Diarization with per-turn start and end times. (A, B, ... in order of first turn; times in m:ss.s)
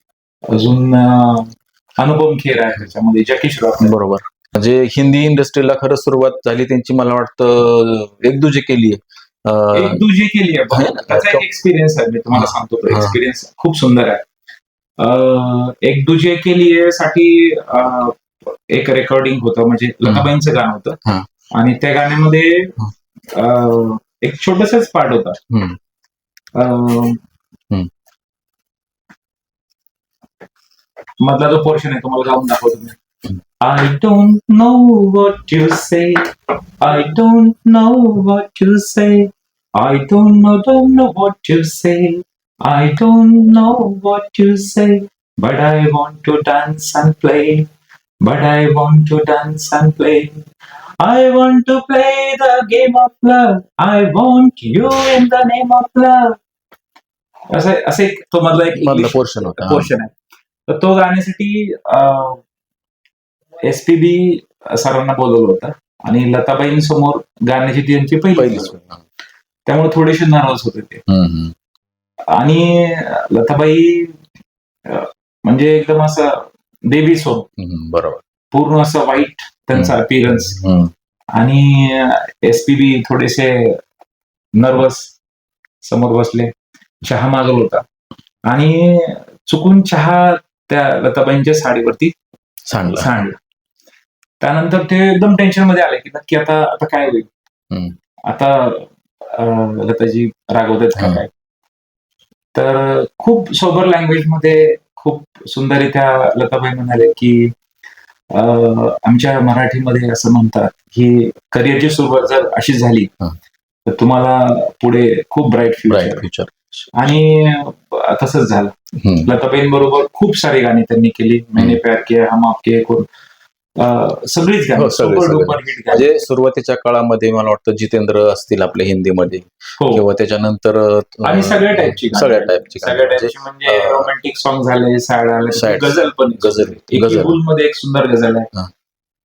0:00.5-0:03.9 A
0:03.8-0:10.0 B
0:09.7-0:14.2 A
0:10.7-0:11.4 B
0:12.3-0:13.2 B
0:15.0-0:21.0 A
0:20.0-0:20.3 B
0:21.5-0:22.7 A
0:23.3-0:25.4 A
0:25.5-0:25.8 B
0:26.5-0:27.2 A
0:31.2-0:33.0 A
0:33.6-0:47.7 A
0:48.2-0:50.4 A
0:51.0-0:56.4 A
0:57.5-1:00.1 A
0:58.7-0:59.9 B
1:00.7-1:02.4 A
1:03.6-1:08.7 A
1:08.4-1:09.0 B
1:09.7-1:11.0 A
1:11.1-1:11.5 B
1:12.3-1:14.2 A
1:14.9-1:17.4 A
1:17.6-1:18.2 B
1:18.5-1:20.6 A
1:19.7-1:20.9 B
1:21.3-1:23.8 A
1:24.6-1:25.1 A
1:25.8-1:27.8 A
1:28.5-1:32.1 A
1:32.7-1:33.1 B
1:32.9-1:33.4 A
1:34.4-1:37.3 A
1:37.7-1:38.0 B
1:38.3-1:41.3 A
1:41.0-1:41.2 B
1:42.5-1:47.5 A
1:48.3-1:53.1 A
1:53.8-1:56.2 A
1:55.9-1:56.8 B
1:56.9-1:58.7 A
1:58.9-1:59.3 B
1:59.2-2:03.1 A
2:03.8-2:06.2 A
2:04.8-2:14.1 B
2:11.2-2:18.5 A
2:15.5-2:17.4 B